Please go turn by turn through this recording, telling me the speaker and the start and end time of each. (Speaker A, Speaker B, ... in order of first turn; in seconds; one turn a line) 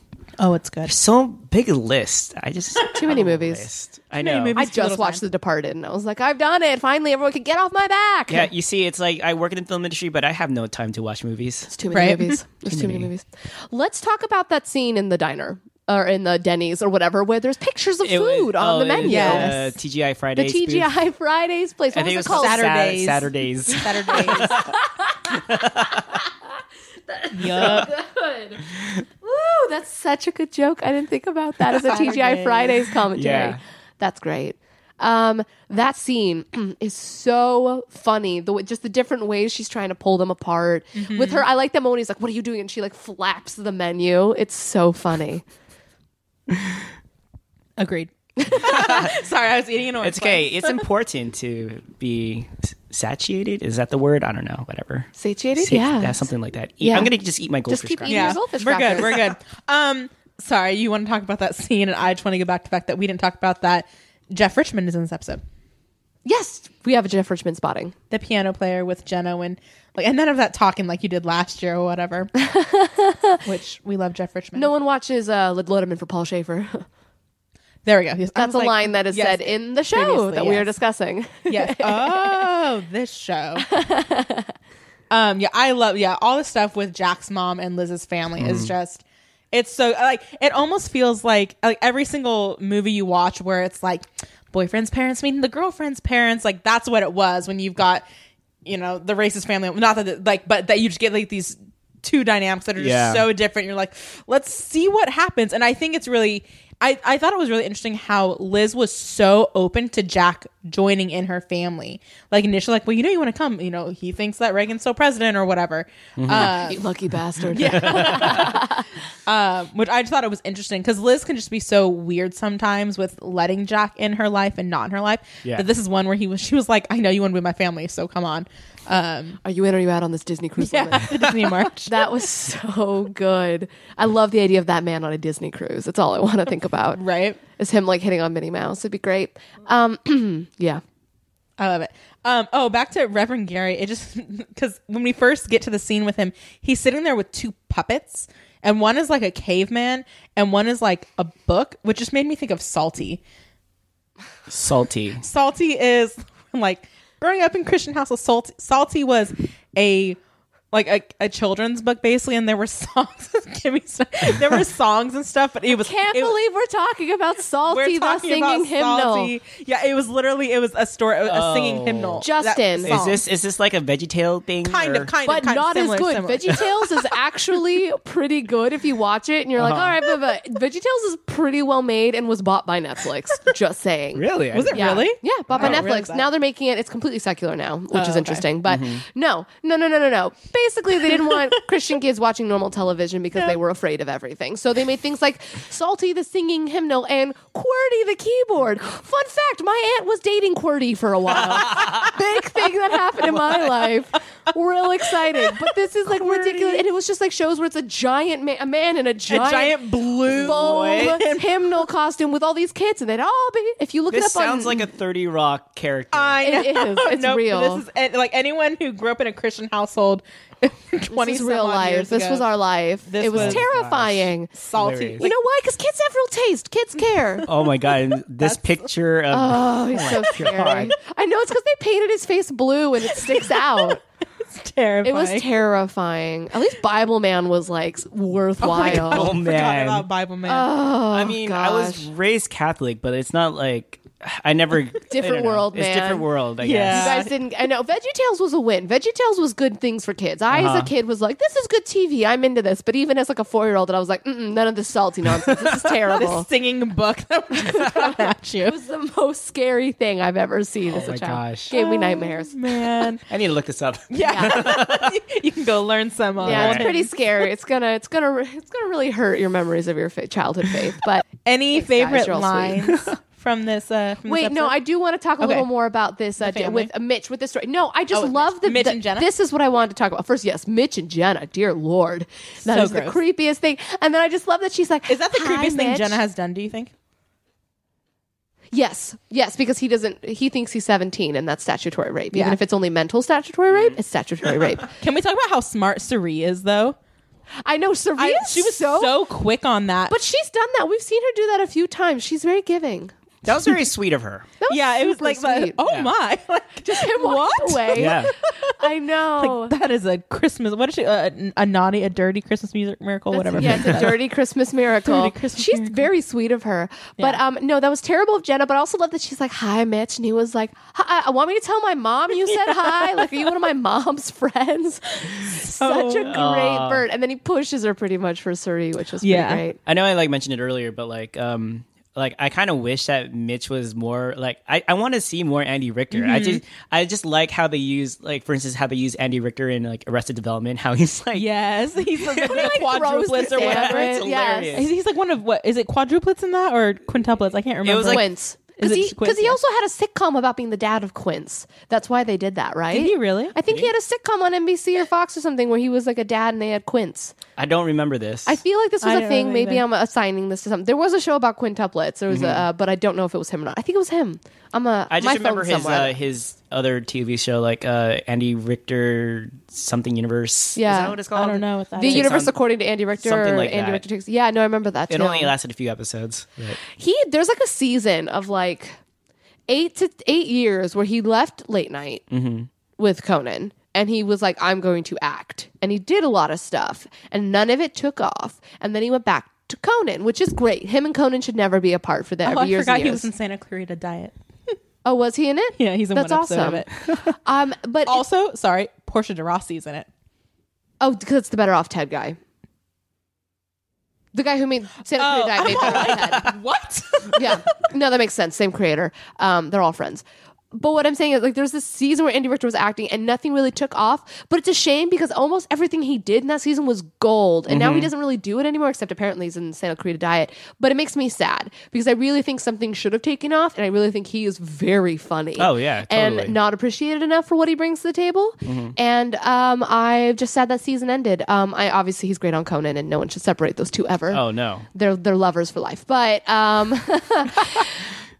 Speaker A: 0.4-0.9
Speaker B: 0.9-4.5
Speaker C: 2.9-3.7
Speaker A: 4.2-5.2
Speaker C: 4.6-8.5
Speaker B: 8.3-11.7
Speaker C: 11.7-19.7
Speaker A: 11.9-12.4
Speaker B: 12.7-13.1
Speaker B: 18.0-20.9
Speaker A: 19.0-19.6
Speaker C: 20.4-22.6
Speaker B: 21.9-24.8
Speaker A: 22.3-24.6
Speaker C: 24.2-25.4
Speaker B: 25.3-26.2
Speaker C: 27.1-28.6
Speaker A: 27.3-27.9
Speaker B: 27.6-27.9
Speaker C: 29.2-45.4
Speaker A: 31.9-32.9
Speaker B: 33.1-33.6
Speaker A: 41.0-41.5
Speaker A: 47.8-50.9
Speaker C: 48.4-49.0
Speaker B: 48.6-49.1
Speaker B: 50.0-58.4
Speaker C: 55.2-56.3
Speaker C: 56.8-57.1
Speaker C: 57.7-59.3
Speaker A: 58.1-65.4
Speaker C: 66.2-68.0
Speaker A: 68.1-72.3
Speaker C: 72.4-73.4
Speaker A: 73.5-74.7
Speaker C: 74.5-76.9
Speaker A: 77.8-80.7
Speaker C: 78.4-82.6
Speaker A: 81.5-83.7
Speaker C: 83.6-84.5
Speaker A: 85.1-98.0
Speaker B: 88.4-88.7
Speaker A: 98.7-116.8
Speaker B: 102.8-103.3
Speaker B: 116.2-116.6
Speaker C: 116.3-118.9
Speaker A: 117.5-118.7
Speaker B: 117.6-118.6
Speaker A: 119.3-129.4
Speaker C: 129.4-137.0
Speaker A: 130.6-132.1
Speaker A: 136.9-137.4
Speaker C: 137.6-140.8
Speaker A: 141.6-153.2
Speaker B: 154.5-155.2
Speaker A: 155.2-160.2
Speaker A: 160.7-166.4
Speaker C: 165.8-169.3
Speaker A: 167.7-173.2
Speaker B: 171.3-172.3
Speaker C: 172.2-173.0
Speaker B: 172.8-175.1
Speaker A: 174.7-176.9
Speaker C: 175.2-214.9
Speaker B: 179.6-180.0
Speaker B: 184.2-185.0
Speaker A: 184.5-186.3
Speaker B: 185.5-185.8
Speaker A: 187.9-188.5
Speaker B: 188.7-189.0
Speaker B: 201.3-202.1
Speaker A: 203.4-203.9
Speaker A: 205.1-206.8
Speaker A: 209.3-211.7
Speaker B: 210.3-211.2
Speaker B: 214.1-216.4
Speaker A: 216.1-222.5
Speaker C: 216.4-217.8
Speaker C: 221.1-224.5
Speaker A: 223.1-223.7
Speaker B: 223.3-225.3
Speaker A: 224.6-225.4
Speaker C: 225.2-227.5
Speaker B: 227.5-230.9
Speaker A: 228.4-228.8
Speaker C: 229.3-234.0
Speaker A: 230.1-230.7
Speaker A: 233.1-234.0
Speaker A: 234.5-235.5
Speaker C: 235.0-239.3
Speaker A: 238.6-240.7
Speaker B: 238.8-240.1
Speaker C: 240.5-242.1
Speaker B: 241.1-247.2
Speaker C: 245.1-246.3
Speaker A: 246.6-247.3
Speaker C: 246.9-256.5
Speaker B: 250.5-250.9
Speaker B: 255.4-255.9
Speaker A: 256.1-258.8
Speaker C: 257.6-263.0
Speaker B: 260.9-261.7
Speaker A: 261.7-263.2
Speaker B: 263.3-265.2
Speaker A: 264.1-267.1
Speaker C: 264.2-264.8
Speaker B: 266.4-266.9
Speaker C: 266.4-272.9
Speaker A: 271.4-274.8
Speaker C: 274.3-286.2
Speaker A: 275.4-275.7
Speaker A: 276.4-276.9
Speaker A: 278.1-279.3
Speaker A: 282.6-283.2
Speaker A: 285.1-286.9
Speaker C: 288.7-294.9
Speaker A: 292.3-292.6
Speaker B: 293.7-294.0
Speaker A: 295.0-297.0
Speaker C: 297.6-299.2
Speaker A: 298.2-300.1
Speaker C: 300.1-303.1
Speaker B: 303.4-304.5
Speaker C: 304.6-305.8
Speaker A: 304.7-308.8
Speaker B: 305.9-306.1
Speaker C: 306.9-309.8
Speaker B: 307.9-308.3
Speaker A: 309.4-314.2
Speaker C: 313.3-329.8
Speaker B: 313.6-314.1
Speaker A: 315.1-316.1
Speaker A: 322.5-323.2
Speaker A: 325.3-326.3
Speaker B: 326.3-327.0
Speaker A: 329.2-329.6
Speaker B: 329.9-341.5
Speaker A: 336.1-336.6
Speaker A: 341.3-348.3
Speaker B: 342.2-344.9
Speaker C: 342.4-344.9
Speaker B: 347.8-348.2
Speaker C: 348.0-357.4
Speaker A: 348.8-349.6
Speaker A: 352.9-353.6
Speaker B: 353.7-353.9
Speaker B: 357.6-358.6
Speaker C: 358.5-366.1
Speaker A: 359.0-359.8
Speaker B: 362.3-362.7
Speaker B: 365.1-372.6
Speaker C: 370.8-371.2
Speaker A: 371.4-372.4
Speaker C: 372.0-375.5
Speaker B: 373.2-374.0
Speaker B: 375.1-376.8
Speaker C: 376.9-379.0
Speaker C: 379.7-382.2
Speaker B: 382.3-382.7
Speaker C: 383.0-393.3
Speaker A: 392.4-394.7
Speaker C: 395.1-398.2
Speaker A: 395.8-396.9
Speaker A: 398.1-400.1
Speaker C: 401.0-402.4
Speaker C: 404.3-406.5
Speaker A: 405.2-407.6
Speaker B: 406.0-406.5
Speaker C: 407.3-434.4
Speaker B: 417.7-418.1
Speaker B: 425.6-426.6
Speaker B: 428.6-428.9
Speaker B: 434.3-434.9
Speaker C: 434.9-438.1